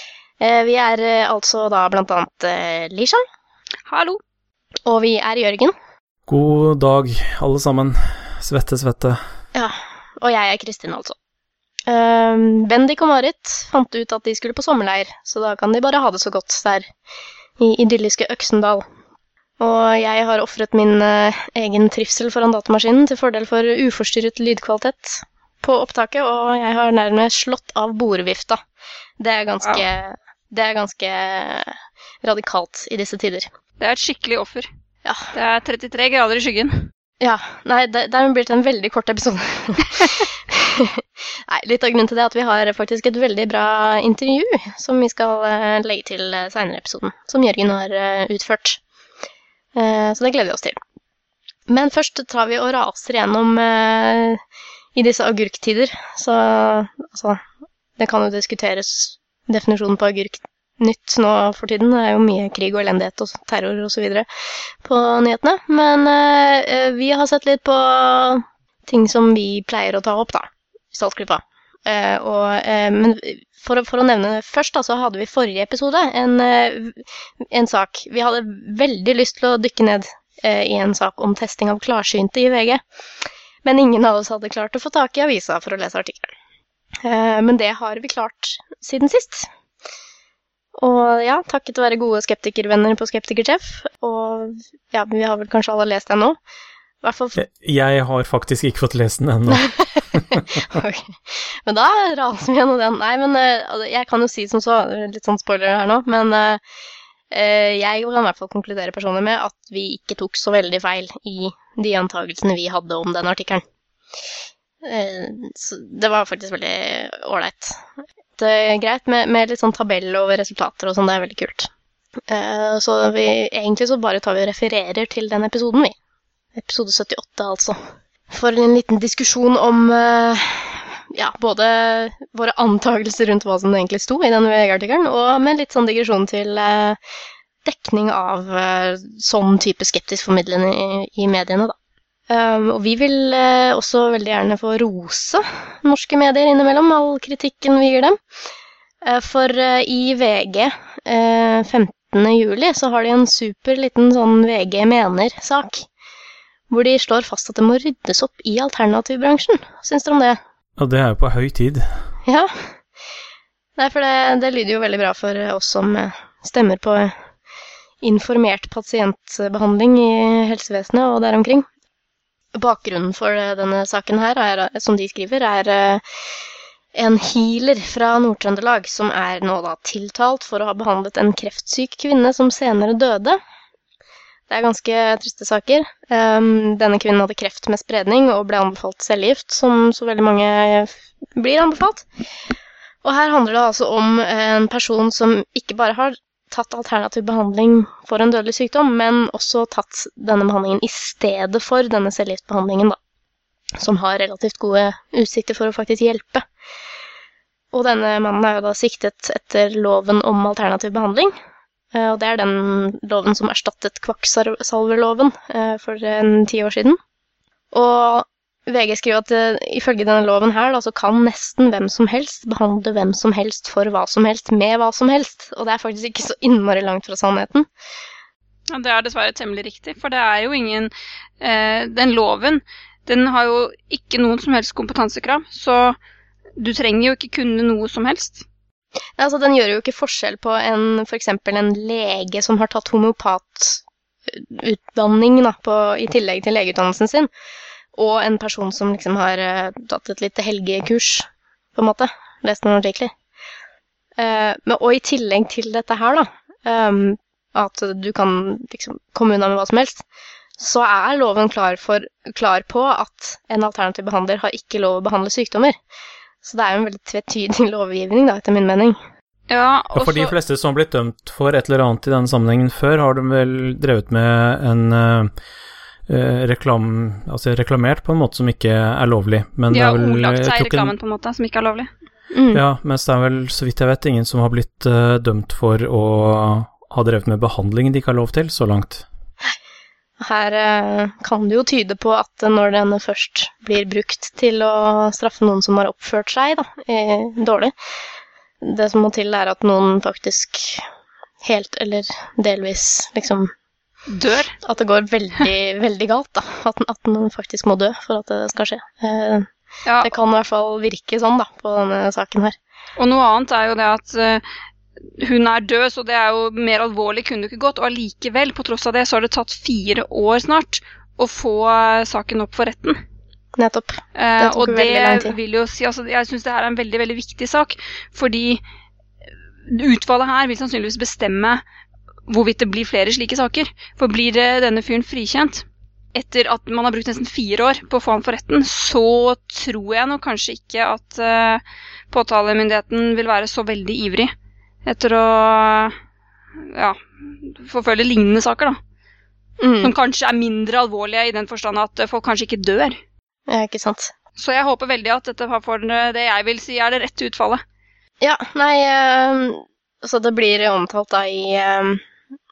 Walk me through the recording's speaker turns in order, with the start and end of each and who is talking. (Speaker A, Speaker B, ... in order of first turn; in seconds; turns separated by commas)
Speaker A: 0.4-3.2, Speaker B: 3.9-4.2, Speaker A: 4.9-5.8, Speaker C: 6.3-9.2, Speaker A: 9.5-11.2, Speaker A: 11.9-16.9, Speaker A: 17.6-18.9, Speaker A: 19.6-28.6, Speaker A: 29.2-33.5, Speaker B: 33.8-34.7, Speaker A: 35.0-35.3, Speaker B: 35.3-36.9, Speaker A: 37.2-48.8, Speaker A: 49.8-50.8, Speaker A: 51.7-54.4, Speaker A: 55.0-57.4, Speaker A: 58.0-64.3, Speaker A: 64.8-86.3, Speaker A: 87.0-89.5, Speaker A: 90.8-96.4, Speaker A: 97.0-97.4, Speaker C: 97.4-100.6, Speaker A: 99.5-106.6, Speaker A: 107.3-113.6, Speaker A: 114.8-117.8, Speaker A: 118.4-121.7, Speaker A: 122.3-125.9, Speaker A: 126.6-127.8, Speaker A: 128.3-137.0, Speaker A: 137.7-141.8, Speaker A: 142.3-148.2, Speaker A: 149.0-155.9, Speaker A: 156.7-160.4, Speaker C: 160.8-161.9, Speaker A: 162.3-162.8, Speaker A: 163.8-167.2, Speaker A: 168.0-171.7, Speaker A: 172.6-176.0, Speaker A: 176.9-183.4, Speaker A: 184.5-192.1, Speaker A: 193.0-203.0, Speaker A: 203.8-206.4, Speaker A: 207.7-211.3, Speaker A: 211.9-217.0, Speaker A: 217.7-227.7, Speaker B: 228.7-236.0, Speaker B: 236.6-238.4, Speaker A: 239.2-247.3, Speaker A: 247.9-253.1, Speaker A: 254.2-260.1, Speaker A: 260.6-265.8, Speaker A: 266.4-269.0, Speaker B: 269.5-270.3, Speaker C: 269.9-275.3, Speaker C: 276.1-280.9, Speaker B: 279.7-281.9, Speaker A: 282.3-282.6, Speaker C: 282.5-289.1, Speaker A: 290.2-297.7, Speaker A: 298.6-300.9, Speaker A: 301.4-303.5, Speaker B: 304.1-304.6, Speaker A: 304.6-309.5, Speaker A: 310.0-312.6, Speaker B: 313.0-314.4, Speaker B: 315.2-323.0, Speaker A: 323.6-325.4, Speaker B: 324.2-328.6, Speaker B: 329.7-331.6, Speaker B: 332.3-344.3, Speaker B: 344.9-346.0, Speaker B: 346.6-348.8, Speaker A: 349.6-349.9, Speaker B: 349.8-353.0, Speaker A: 353.5-354.1, Speaker B: 354.4-357.6, Speaker A: 358.2-362.0